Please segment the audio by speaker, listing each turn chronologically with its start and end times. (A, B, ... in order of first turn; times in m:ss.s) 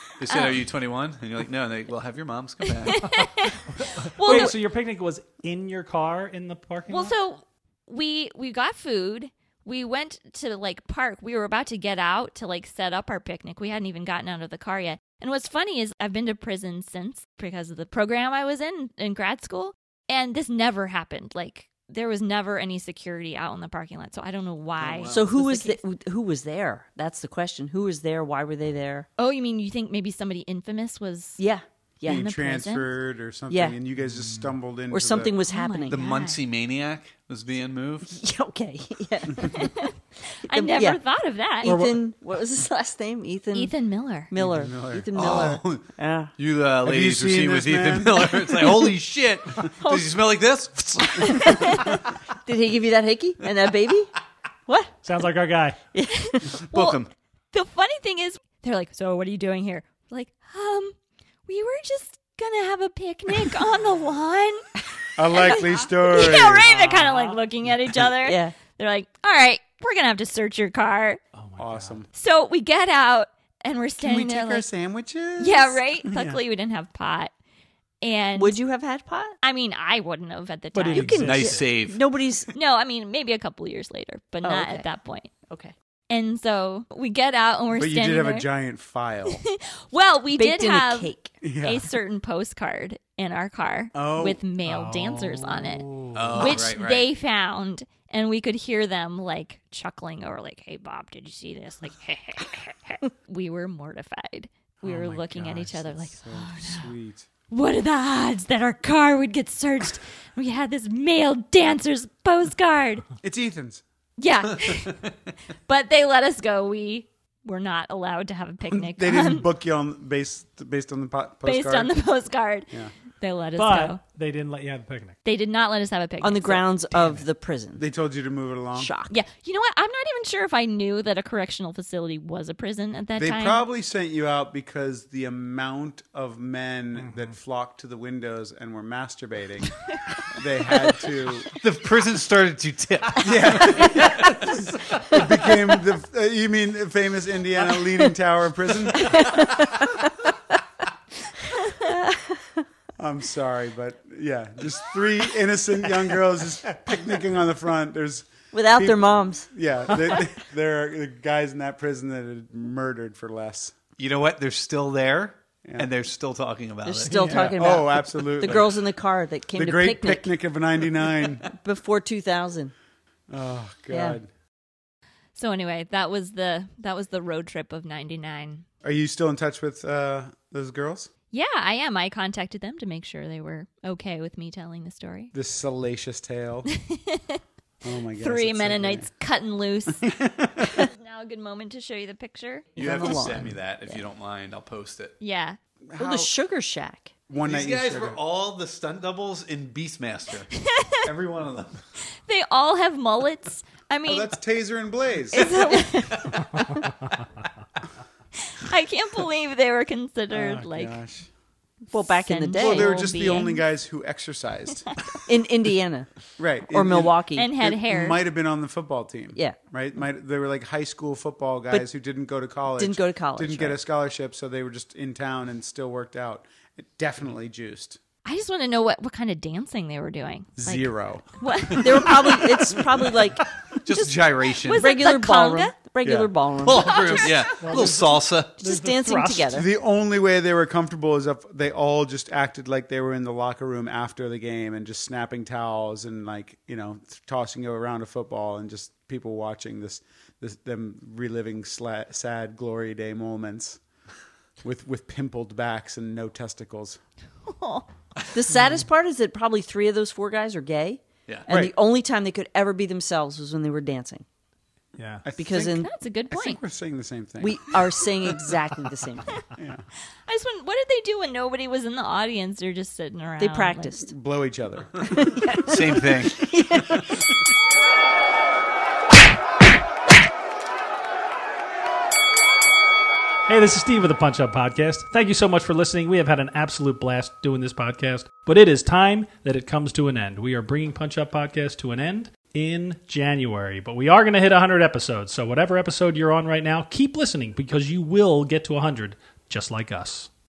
0:00.2-0:03.3 A
0:00.3-0:00.6 B
0:02.8-0:04.6 B
0:03.8-0:07.1 C
0:06.9-0:25.8 B
0:24.8-0:25.3 A
0:25.1-0:29.1 D
0:29.2-0:31.4 B
0:31.4-0:32.3 D
0:32.1-0:32.9 B
0:32.1-0:35.4 E
0:33.5-0:33.8 D
0:34.0-0:34.5 C
0:34.9-0:36.0 D
0:35.5-0:36.4 B
0:35.9-0:38.2 A
0:38.0-0:39.9 D
0:39.4-0:41.7 B
0:40.5-0:41.0 D
0:41.6-0:43.7 D
0:41.6-0:42.0 C
0:43.5-0:44.3 B
0:44.3-0:46.3 D
0:44.4-0:45.5 E
0:45.1-0:52.0 A
0:46.8-0:48.4 E
0:49.8-0:50.1 D
0:51.2-0:55.0 D
0:51.2-0:52.0 B
0:55.0-0:55.8 C
0:55.9-0:56.6 D
0:56.1-1:01.0 B
0:56.5-0:57.1 A
1:01.5-1:04.7 B
1:05.2-1:06.7 E
1:05.3-1:11.2 B
1:06.7-1:07.4 C
1:08.2-1:08.6 D
1:11.3-1:12.0 C
1:11.6-1:12.1 E
1:12.1-1:14.7 B
1:14.0-1:16.4 E
1:15.4-1:17.3 B
1:18.0-1:18.6 B
1:18.4-1:19.4 D
1:19.4-1:21.3 B
1:20.7-1:21.7 C
1:20.9-1:22.5 D
1:21.1-1:22.0 A
1:22.5-1:25.3 B
1:24.4-1:24.9 D
1:25.5-1:25.7 D
1:26.1-1:28.5 B
1:27.7-1:29.4 E
1:29.3-1:46.9 B
1:30.3-1:31.4 D
1:31.4-1:31.9 E
1:33.9-1:34.4 E
1:34.6-1:36.6 C
1:36.2-1:37.1 A
1:44.8-1:47.3 E
1:44.9-1:45.7 C
1:47.5-1:53.1 B
1:53.2-1:53.8 E
1:54.2-1:55.0 B
1:55.7-1:59.5 B
1:58.7-2:02.0 E
2:01.4-2:04.0 B
2:03.6-2:05.2 C
2:05.2-2:06.7 B
2:06.2-2:07.8 D
2:07.8-2:08.9 E
2:08.8-2:09.1 D
2:09.1-2:13.6 B
2:13.2-2:21.6 E
2:21.5-2:24.2 A
2:23.2-2:29.4 E
2:28.9-2:30.3 D
2:31.6-2:32.6 D
2:33.0-2:43.7 E
2:38.5-2:39.5 D
2:44.0-2:47.6 A
2:46.9-2:50.3 D
2:47.0-2:47.6 C
2:47.4-2:48.9 E
2:49.5-2:51.5 E
2:51.5-2:52.7 D
2:53.3-2:54.3 E
2:53.9-2:54.2 D
2:55.4-2:58.6 B
2:58.8-3:01.1 E
3:01.3-3:05.3 B
3:05.3-3:06.7 E
3:06.7-3:07.4 B
3:07.8-3:09.1 E
3:08.2-3:13.2 B
3:10.0-3:10.7 E
3:12.8-3:13.6 D
3:12.8-3:15.2 A
3:15.2-3:15.6 B
3:15.9-3:16.3 E
3:16.0-3:17.1 D
3:17.3-3:18.2 E
3:17.4-3:20.5 A
3:20.5-3:21.1 B
3:21.0-3:21.8 A
3:22.3-3:24.4 B
3:24.1-3:25.5 E
3:25.3-3:26.9 B
3:25.4-3:26.5 A
3:28.5-3:31.0 B
3:30.3-3:31.3 E
3:31.9-3:33.2 D
3:32.1-3:33.6 B
3:32.6-3:35.2 E
3:34.9-3:35.2 B
3:35.3-3:36.1 D
3:36.4-3:48.0 E
3:36.7-3:37.5 D
3:37.4-3:38.2 B
3:42.8-3:43.8 D
3:48.2-3:52.4 B
3:50.6-3:51.3 E
3:51.7-3:53.2 A
3:51.8-3:53.4 D
3:53.7-3:54.9 A
3:54.6-3:55.8 B
3:54.7-3:58.0 D
3:56.0-3:56.3 E
3:56.6-3:58.6 A
3:57.6-3:59.7 C
3:58.6-3:59.7 D
3:59.5-4:13.8 E
4:14.6-4:17.0 E
4:17.5-4:17.9 B
4:18.3-4:24.2 D
4:21.3-4:21.7 A
4:25.0-4:25.2 C
4:25.2-4:27.8 E
4:25.4-4:25.9 D
4:25.6-4:26.6 B
4:27.4-4:29.3 D
4:29.5-4:29.8 E
4:30.3-4:33.9 B
4:33.4-4:34.1 D
4:34.1-4:35.6 E
4:35.0-4:37.2 D
4:35.6-4:36.5 A
4:43.5-5:00.3 C